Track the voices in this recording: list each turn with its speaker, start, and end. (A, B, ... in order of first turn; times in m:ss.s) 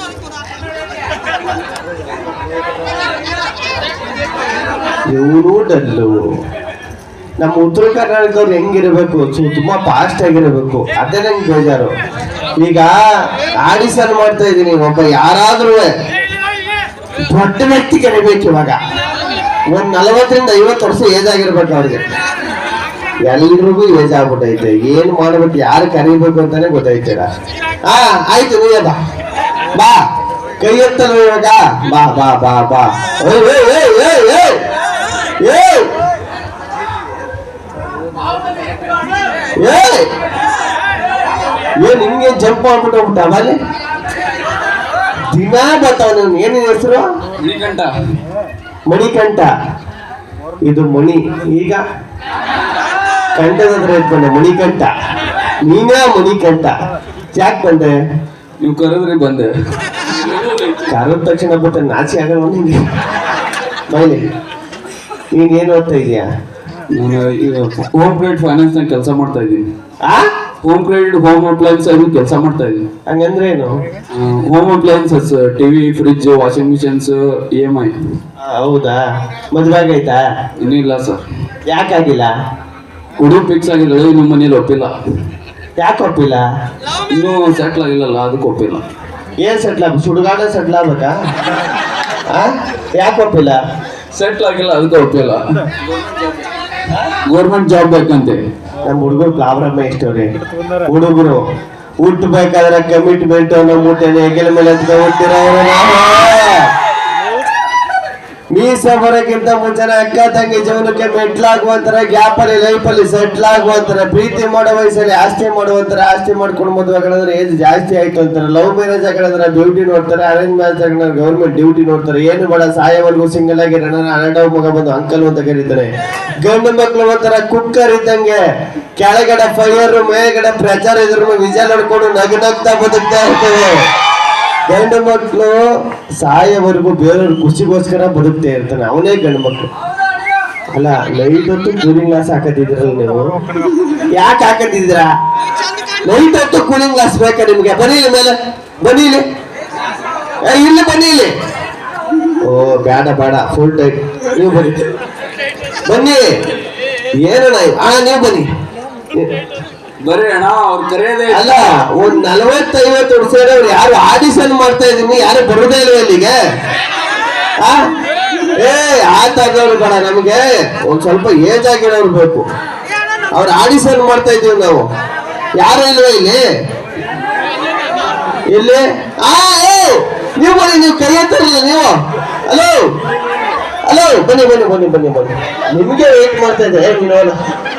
0:05.1-0:06.1 A
0:07.4-0:11.9 A
0:12.6-0:12.9 A
0:13.6-0:15.9 A
0:17.2-0:18.8 A
0:19.7-0:22.0 A
0:23.2-0:27.3 A
0:27.8-0:29.0 A
0:30.6-0:34.6 A
0:35.4-0:35.9 A
0:39.6-0:40.0 A
0:41.8-0:43.6 A
0:45.3-0:47.0 A
0:47.4-0:47.9 B
0:48.9-0:49.5 A
0:50.6-0:51.8 A
0:53.4-0:54.9 A
0:55.6-0:56.7 A
0:57.3-0:57.9 A
0:58.6-0:59.5 B
1:00.1-1:00.8 B
1:00.9-1:02.8 A
1:03.9-1:04.2 A
1:05.3-1:06.2 A
1:06.9-1:09.7 B
1:10.6-1:12.8 B
1:13.1-1:13.7 A
1:14.1-1:17.9 B
1:18.4-1:19.0 A
1:19.5-1:20.2 A
1:20.6-1:21.2 B
1:21.7-1:22.3 A
1:23.2-1:24.9 B
1:25.8-1:26.4 A
1:27.1-1:28.8 B
1:29.4-1:31.1 A
1:32.3-1:33.6 A
1:34.1-1:35.4 B
1:37.3-1:38.4 B
1:38.8-1:40.3 A
1:40.8-1:41.4 A
1:42.0-1:46.7 A
1:48.5-2:05.9 A
2:06.4-2:08.4 A
2:09.0-2:13.8 A
2:14.7-2:15.6 A
2:16.2-2:19.7 A
2:20.7-2:25.0 A
2:26.0-2:29.2 A
2:30.4-2:31.3 A
2:32.4-2:34.8 A
2:35.8-2:36.2 A
2:37.2-2:38.5 A
2:40.0-2:41.4 B
2:41.3-2:46.3 A
2:48.5-2:52.4 A
2:53.3-2:54.8 A
2:55.6-2:56.4 A
2:58.5-3:01.9 A
3:02.4-3:02.8 A
3:03.8-3:07.4 A